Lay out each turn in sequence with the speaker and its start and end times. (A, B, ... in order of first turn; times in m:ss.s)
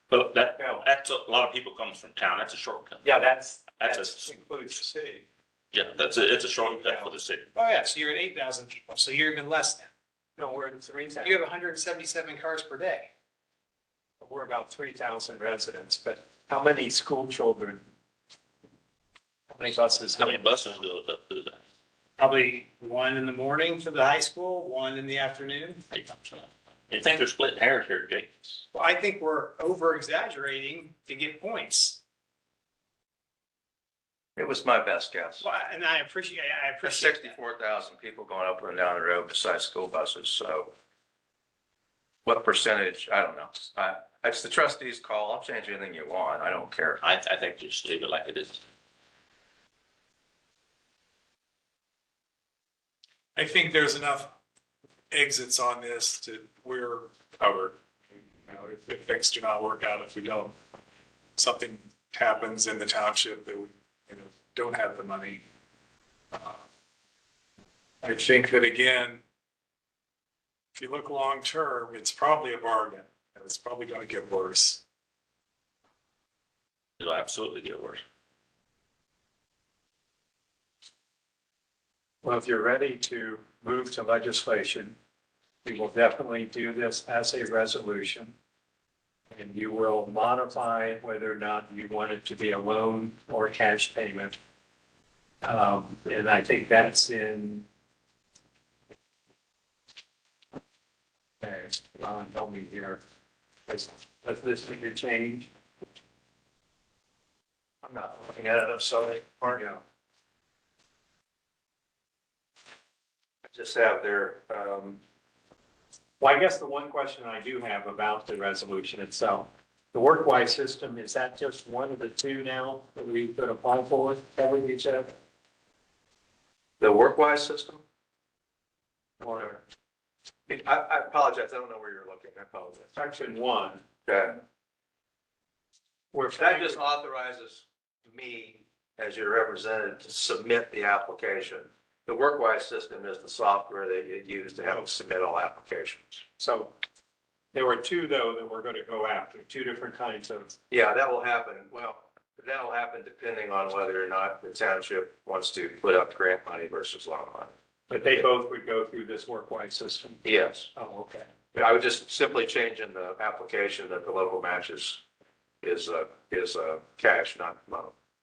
0:00.1-0:03.0 A
0:00.6-0:00.8 B
0:03.0-0:05.2 B
0:03.8-0:04.2 A
0:05.7-0:07.5 A
0:07.5-0:09.9 C
0:10.4-0:11.4 B
0:11.2-0:13.1 C
0:14.2-0:17.8 B
0:19.5-0:20.4 B
0:20.2-0:21.6 A
0:22.2-0:25.8 C
0:25.9-0:28.3 A
0:28.7-0:32.0 C
0:34.4-0:35.5 D
0:35.4-0:37.4 C
0:36.8-0:40.7 D
0:42.2-0:47.0 D
0:47.0-0:48.6 A
0:53.4-0:54.3 E
0:55.1-0:57.8 E
0:58.4-1:00.6 E
1:01.4-1:05.4 E
1:06.3-1:06.6 E
1:08.0-1:09.2 E
1:10.7-1:14.8 E
1:17.0-1:18.0 A
1:22.2-1:25.0 B
1:25.6-1:28.3 B
1:29.3-1:34.4 B
1:35.4-1:37.6 B
1:41.4-1:43.0 B
1:43.7-1:45.5 B
1:47.8-1:49.6 D
1:53.5-1:55.0 D
1:56.2-2:05.1 B
2:06.8-2:07.8 D
2:09.2-2:09.6 B
2:10.5-2:12.9 D
2:12.9-2:13.8 B
2:14.0-2:14.4 D
2:16.1-2:16.8 B
2:16.3-2:26.2 D
2:26.4-2:26.7 B
2:27.5-2:30.5 B
2:30.7-2:37.5 D
2:37.9-2:40.2 B
2:40.2-2:40.7 D
2:40.7-2:41.3 B
2:41.5-2:45.0 D
2:45.6-2:47.9 D